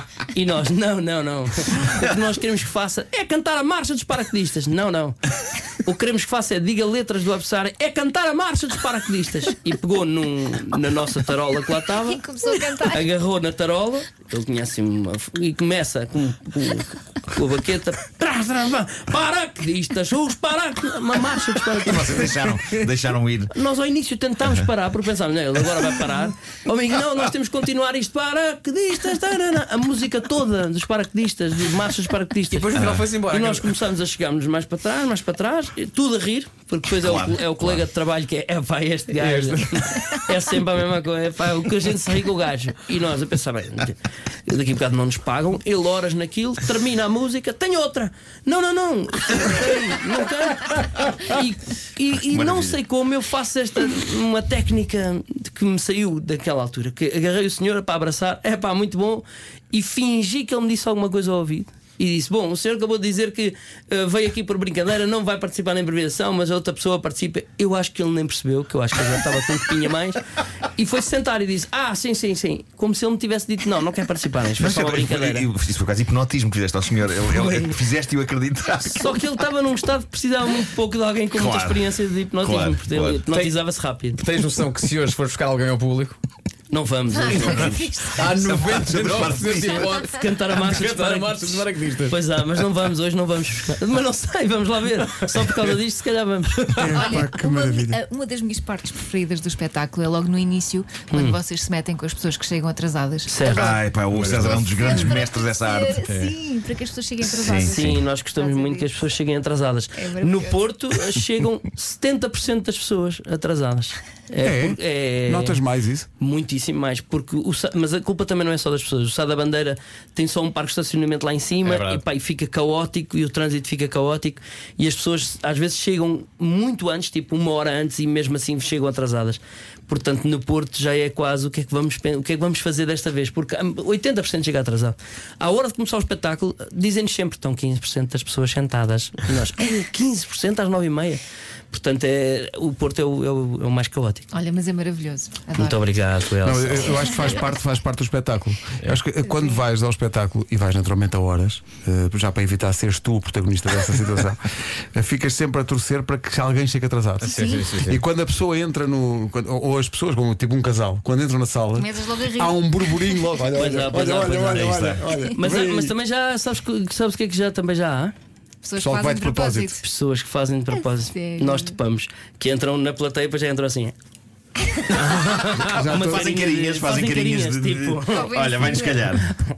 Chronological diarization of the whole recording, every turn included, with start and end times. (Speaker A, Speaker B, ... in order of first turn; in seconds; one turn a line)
Speaker A: 0.3-12.2
Speaker B: 12.1-13.1
Speaker A: 12.8-22.3
Speaker C: 21.8-23.5
Speaker A: 23.5-70.2
Speaker D: 32.5-33.7
Speaker C: 32.8-33.0
Speaker C: 37.0-37.8
Speaker D: 39.2-40.1
Speaker C: 52.3-52.8
Speaker A: 70.8-75.5
Speaker C: 74.6-79.2
Speaker A: 77.3-77.8
Speaker A: 78.8-84.2
Speaker C: 81.3-83.2
Speaker D: 84.1-86.2
Speaker A: 86.7-87.9
Speaker B: 87.1-88.3
Speaker C: 87.4-90.0
Speaker D: 87.6-92.2
Speaker A: 89.6-97.1
Speaker E: 96.8-98.0
Speaker B: 96.9-109.0
Speaker A: 101.1-101.4
Speaker A: 103.3-103.8
Speaker C: 103.4-106.0
Speaker D: 104.1-104.9
Speaker D: 106.0-106.3
Speaker C: 107.2-108.0
Speaker A: 107.6-115.6
Speaker B: 110.0-110.6
Speaker E: 114.4-116.1
Speaker A: 116.2-144.3
Speaker D: 121.6-122.0
Speaker B: 144.3-145.8
Speaker A: 145.5-147.2
Speaker E: 146.4-165.9
Speaker D: 157.2-158.0
Speaker B: 157.2-157.7
Speaker B: 161.8-163.2
Speaker A: 163.5-168.1
Speaker C: 164.5-165.0
Speaker B: 168.6-169.8
Speaker E: 168.8-169.8
Speaker A: 169.8-173.9
Speaker B: 171.1-171.7
Speaker A: 174.7-178.3
Speaker E: 175.6-176.3
Speaker C: 175.7-179.3
Speaker B: 178.1-179.1